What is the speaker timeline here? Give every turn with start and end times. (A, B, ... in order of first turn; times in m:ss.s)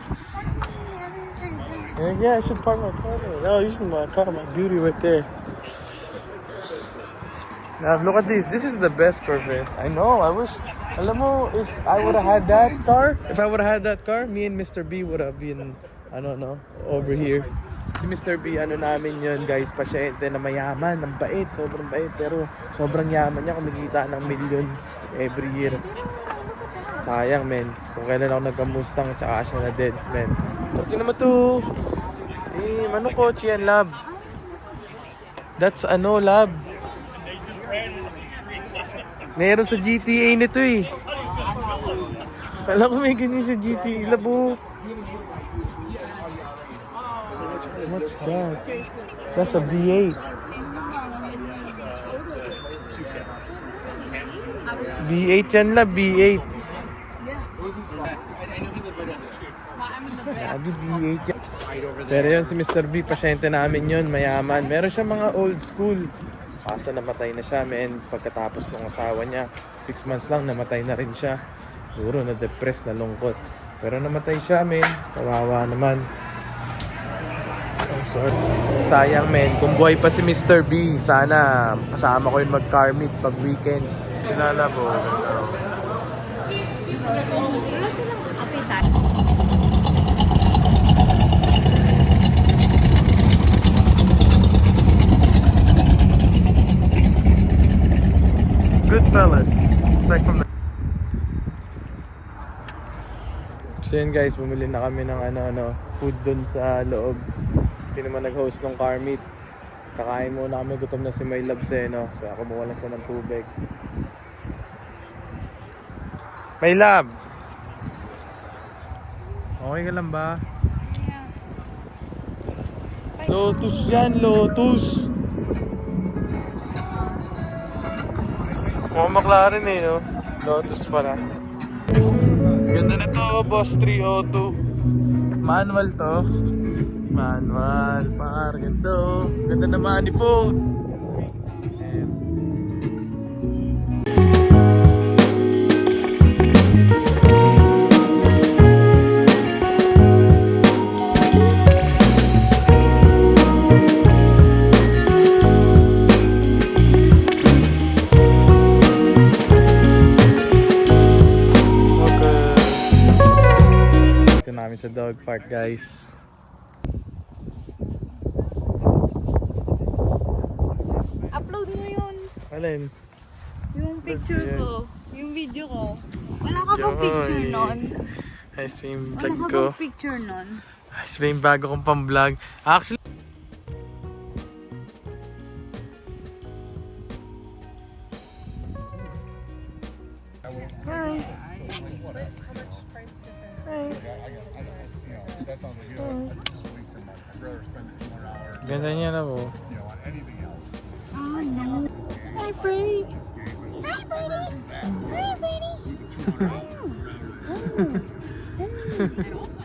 0:00.5-0:02.0 A
0:02.0-0:05.3 B
0:07.8-0:25.8 B
0:25.8-0:27.1 A
0:27.0-0:31.6 B
0:32.5-0:33.9 B
0:35.6-0:36.6 B
0:39.4-0:40.9 B
0:42.6-0:44.6 B
0:47.8-0:48.6 B
0:49.4-0:50.2 B
0:50.8-0:51.9 A
0:53.6-0:54.9 A
0:55.0-0:56.5 B
1:00.1-1:01.3 B
1:02.1-1:06.1 B
1:06.6-1:11.4 B
1:12.0-1:16.0 B
1:17.9-1:25.6 B
1:27.6-1:28.8 A
1:38.8-1:40.4 B
1:43.8-1:47.2 B
1:47.9-1:49.2 B
1:50.0-1:53.5 B
1:56.6-1:57.1 B
1:59.6-2:00.4 B
2:00.9-2:01.3 A
2:03.2-2:04.2 A
2:03.2-2:05.1 B
2:08.9-2:11.2 B
2:12.6-2:14.6 B
2:15.4-2:16.2 B
2:17.1-2:20.6 B
2:21.8-2:22.2 B
2:42.0-2:42.9 B
2:44.4-2:46.2 B
2:51.3-2:52.3 A
2:52.5-2:52.9 B
2:53.7-2:57.9 A
2:54.0-2:54.7 B
2:56.7-2:57.9 B
2:58.6-2:59.8 B
2:59.2-3:00.6 A
3:00.9-3:03.0 B
3:10.8-3:11.3 B
3:13.7-3:14.0 B
3:15.9-3:16.4 B
3:18.6-3:19.6 B
3:21.1-3:23.1 A
3:23.8-3:25.8 A
3:24.8-3:25.1 B
3:26.2-3:26.6 B
3:26.4-3:28.1 A
3:27.6-3:28.0 B
3:28.6-3:29.3 A
3:28.8-3:29.2 B